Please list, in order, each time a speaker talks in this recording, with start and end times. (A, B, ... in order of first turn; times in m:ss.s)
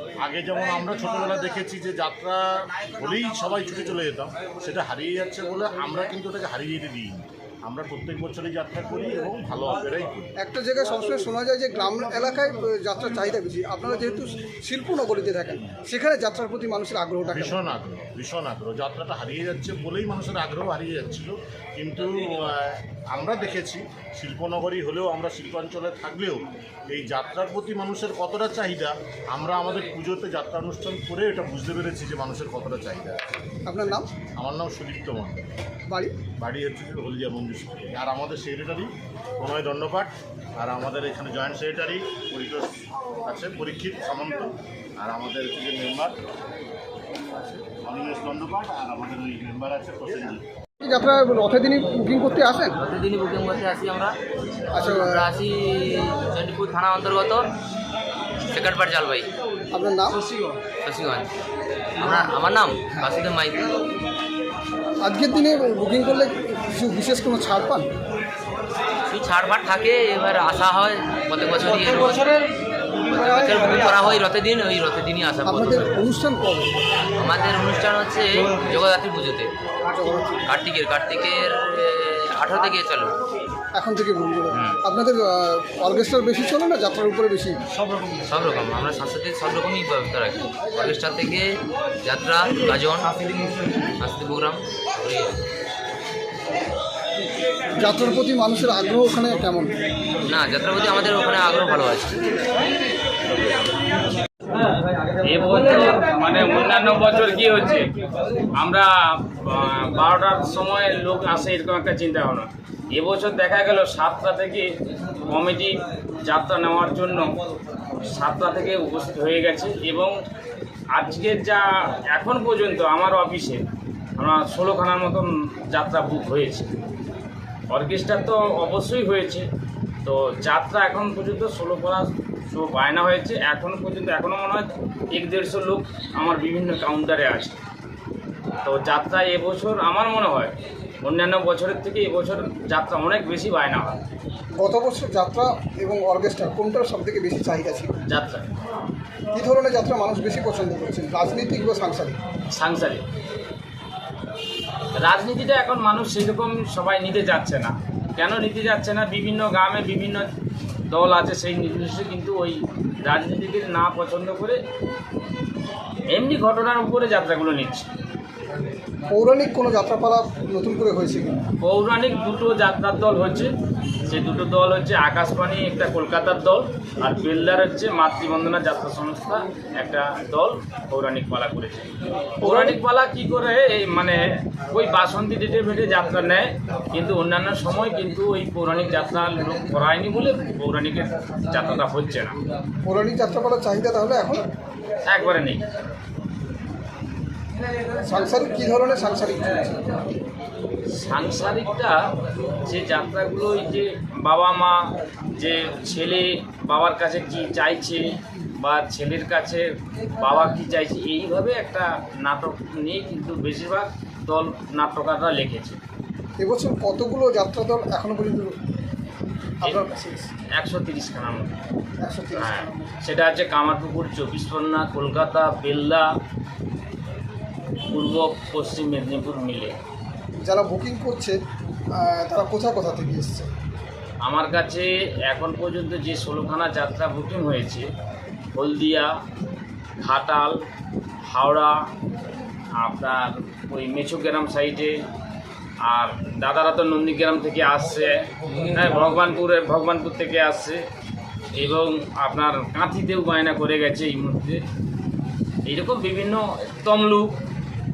0:00.2-0:10.3 A
0:10.4-0:17.6 B
0:17.3-0:33.2 A
0:33.6-0:34.1 B
0:34.4-0:35.4 A
0:35.9-0:36.2 B
0:36.4-0:42.7 A
0:43.2-0:46.1 A
0:47.8-0:50.4 A
0:50.8-0:52.8 B
0:52.8-0:54.2 C
0:54.7-0:57.5 C
0:54.7-0:55.2 B
0:58.5-0:59.3 C
0:59.7-1:00.2 B
1:00.8-1:01.3 C
1:02.0-1:03.7 C
1:05.0-1:07.9 B
1:09.1-1:15.9 C
1:15.4-1:16.8 B
1:17.2-1:19.5 C
1:19.8-1:20.4 B
1:20.5-1:23.2 C
1:23.7-1:27.6 B
1:28.2-1:33.1 C
1:34.0-1:35.4 C
1:37.8-1:39.7 B
1:40.2-1:42.2 C
1:45.2-1:47.9 D
1:48.6-1:54.7 D
1:55.3-1:57.3 D
1:57.9-2:00.2 D
2:00.9-2:06.7 D
2:07.7-2:09.5 D
2:10.0-2:17.6 D
2:18.6-2:24.0 D
2:24.6-2:28.0 B
2:28.1-2:28.5 D
2:29.3-2:32.2 B
2:32.5-2:33.0 D
2:35.0-2:40.3 D
2:40.9-2:44.6 D
2:46.1-2:47.9 D
2:49.1-2:51.4 B
2:51.6-2:53.5 D
2:54.1-3:12.4 D
3:02.4-3:02.8 B
3:12.8-3:14.4 B
3:15.0-3:15.6 D
3:18.0-3:19.9 B
3:21.0-3:22.0 D
3:22.6-3:35.8 D
3:36.4-3:38.5 B
3:39.6-3:40.3 B
3:40.6-3:41.6 D
3:42.0-3:43.0 B
3:42.3-3:46.1 D
3:47.9-3:49.8 D
3:50.4-3:51.4 B
3:52.0-3:53.5 B
3:54.2-3:57.9 D
3:58.5-3:59.1 D
4:00.0-4:00.6 D
4:01.2-4:01.8 D
4:02.8-4:05.0 D
4:05.8-4:10.8 D
4:11.6-4:14.6 D
4:15.6-4:17.4 D